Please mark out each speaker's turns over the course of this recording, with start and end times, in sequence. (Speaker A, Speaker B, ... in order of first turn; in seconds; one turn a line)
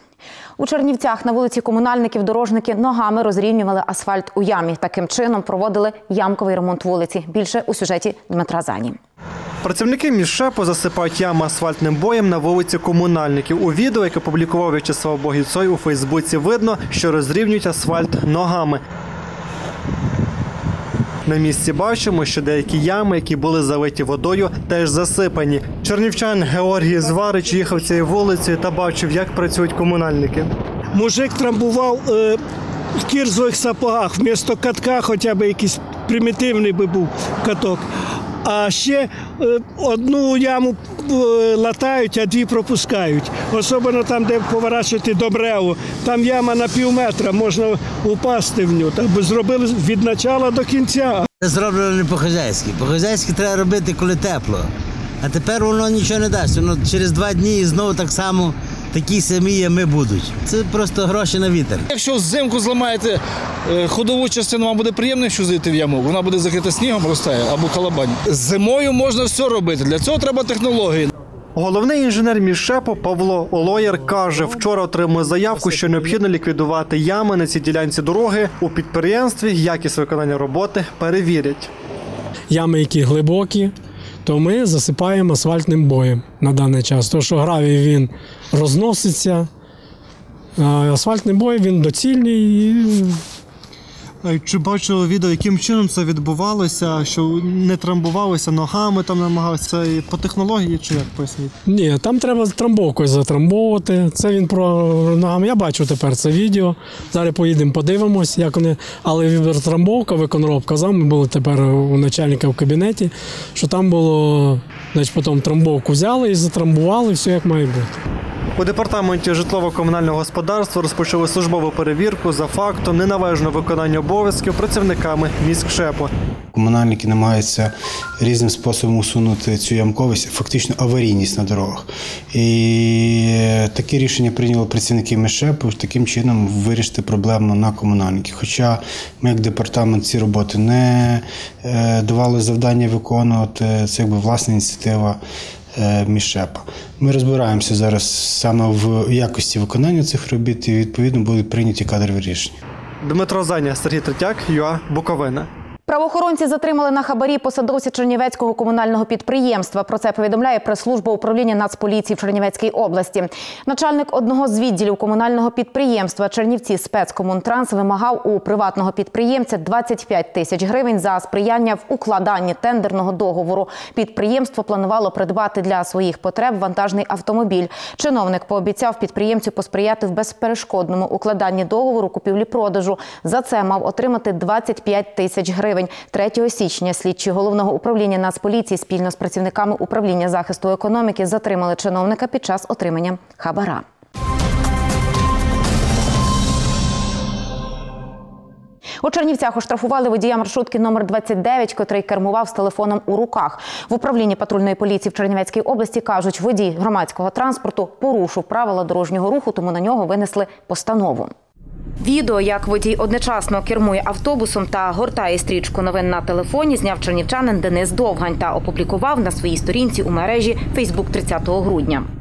Speaker A: 0.6-9.0
Speaker B: 9.6-18.8
Speaker B: 21.2-30.5
Speaker C: 30.9-32.4
Speaker C: 33.0-37.8
Speaker C: 38.4-51.2
Speaker D: 51.4-54.7
Speaker D: 55.2-61.9
Speaker E: 61.9-71.1
Speaker B: 71.5-81.7
Speaker F: 82.5-83.7
Speaker F: 84.2-89.5
Speaker F: 90.6-93.2
Speaker B: 94.2-101.5
Speaker F: 101.7-117.9
Speaker B: 118.5-126.1
Speaker G: 126.5-145.2
Speaker G: 145.8-152.6
Speaker B: 153.0-155.5
Speaker A: 155.9-193.8
Speaker A: 199.0-211.3
Speaker A: 212.0-222.1